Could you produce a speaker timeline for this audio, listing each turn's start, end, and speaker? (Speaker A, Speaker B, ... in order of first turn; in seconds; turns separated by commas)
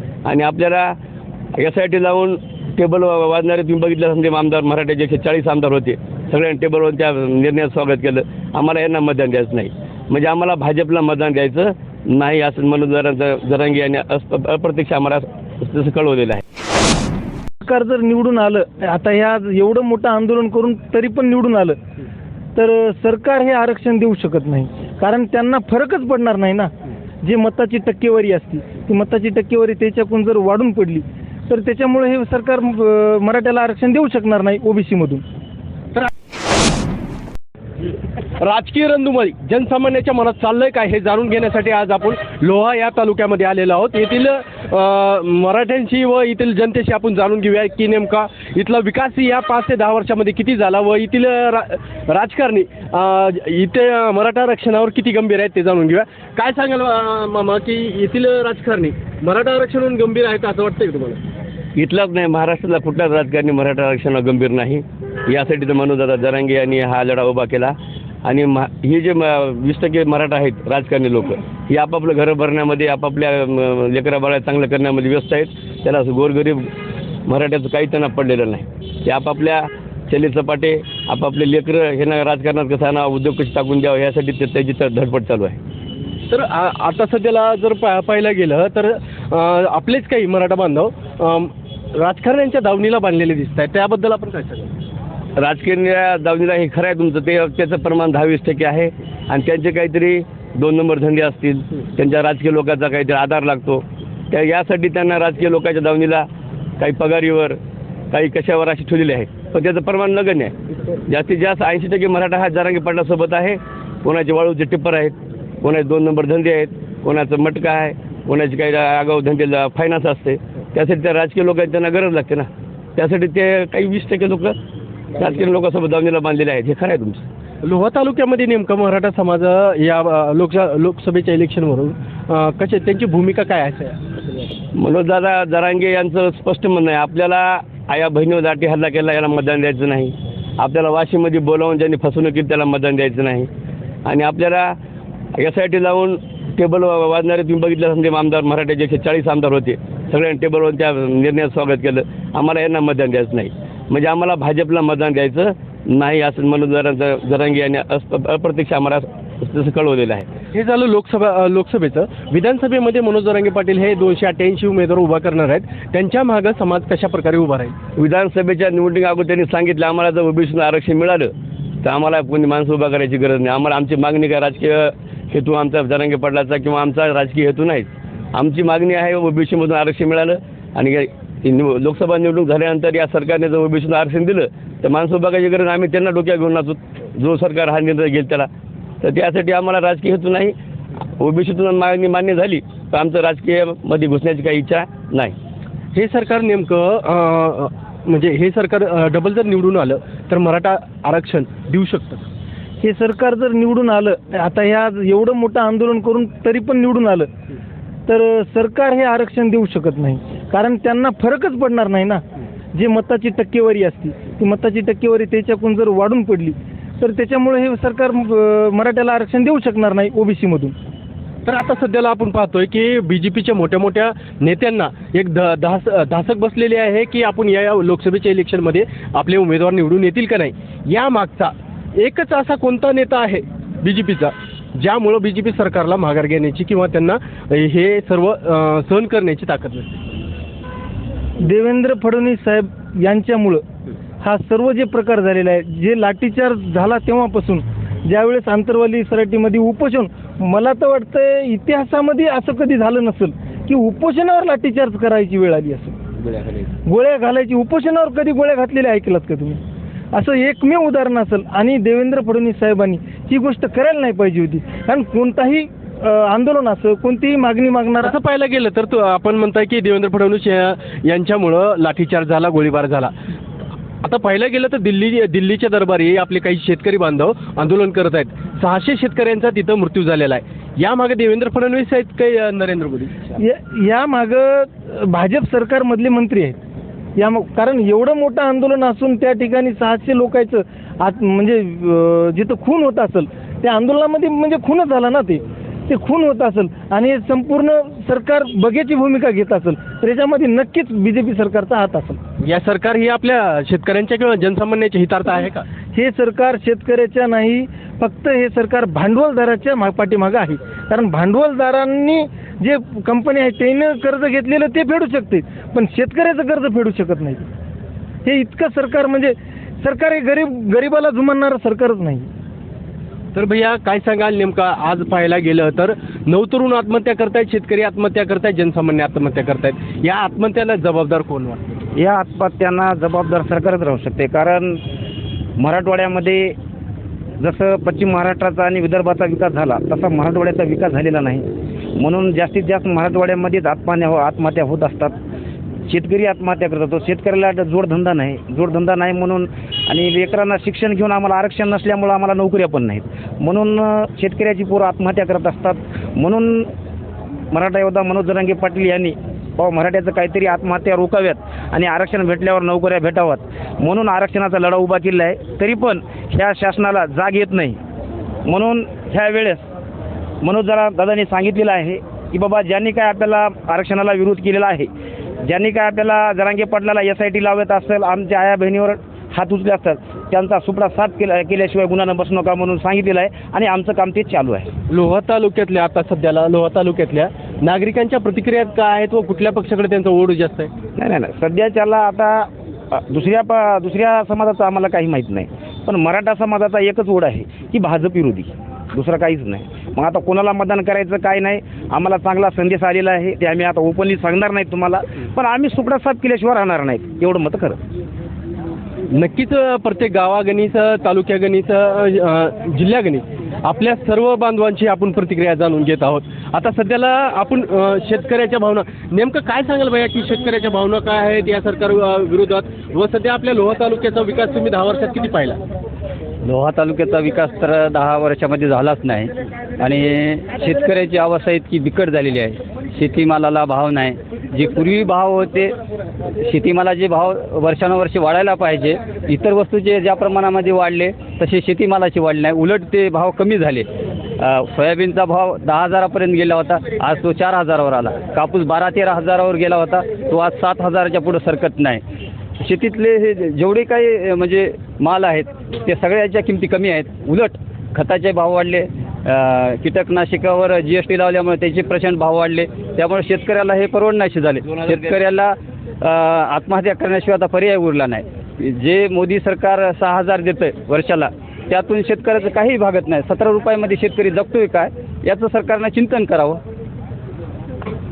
Speaker A: 0.2-1.0, Speaker A: 1.6-16.4, Speaker B: 17.6-21.8, Speaker B: 22.6-26.7, Speaker B: 27.2-35.2, Speaker C: 38.4-61.2, Speaker A: 61.8-76.7, Speaker A: 77.3-85.6, Speaker C: 86.3-94.7, Speaker A: 95.4-107.6, Speaker A: 108.1-110.6, Speaker A: 111.1-124.6, Speaker A: 125.2-127.2, Speaker C: 127.6-134.1, Speaker A: 134.8-143.5, Speaker A: 144.1-144.8, Speaker A: 145.4-160.3, Speaker C: 160.5-167.8, Speaker A: 168.0-171.3, Speaker A: 171.8-188.5, Speaker A: 189.0-190.6, Speaker A: 191.2-195.4, Speaker C: 195.9-202.3, Speaker B: 202.8-207.3, Speaker B: 208.1-212.2, Speaker B: 212.8-220.8, Speaker C: 221.5-239.9, Speaker B: 241.4-243.6, Speaker B: 244.2-256.0, Speaker B: 256.9-259.6, Speaker B: 260.1-268.2, Speaker C: 268.0-273.1, Speaker C: 274.0-283.3, Speaker B: 283.4-286.6, Speaker B: 287.2-302.2, Speaker C: 302.4-305.7, Speaker B: 305.9-317.5, Speaker B: 318.2-322.3, Speaker C: 323.4-331.8, Speaker D: 331.9-334.8, Speaker D: 335.6-336.6, Speaker D: 337.4-345.2, Speaker D: 345.9-356.7, Speaker D: 357.5-367.8, Speaker D: 368.5-369.7, Speaker D: 370.4-374.9, Speaker D: 375.4-384.7, Speaker C: 384.9-390.7, Speaker D: 391.0-407.8, Speaker C: 409.1-425.6, Speaker E: 426.4-435.8, Speaker E: 436.4-452.0, Speaker E: 452.6-476.6, Speaker A: 464.6-465.2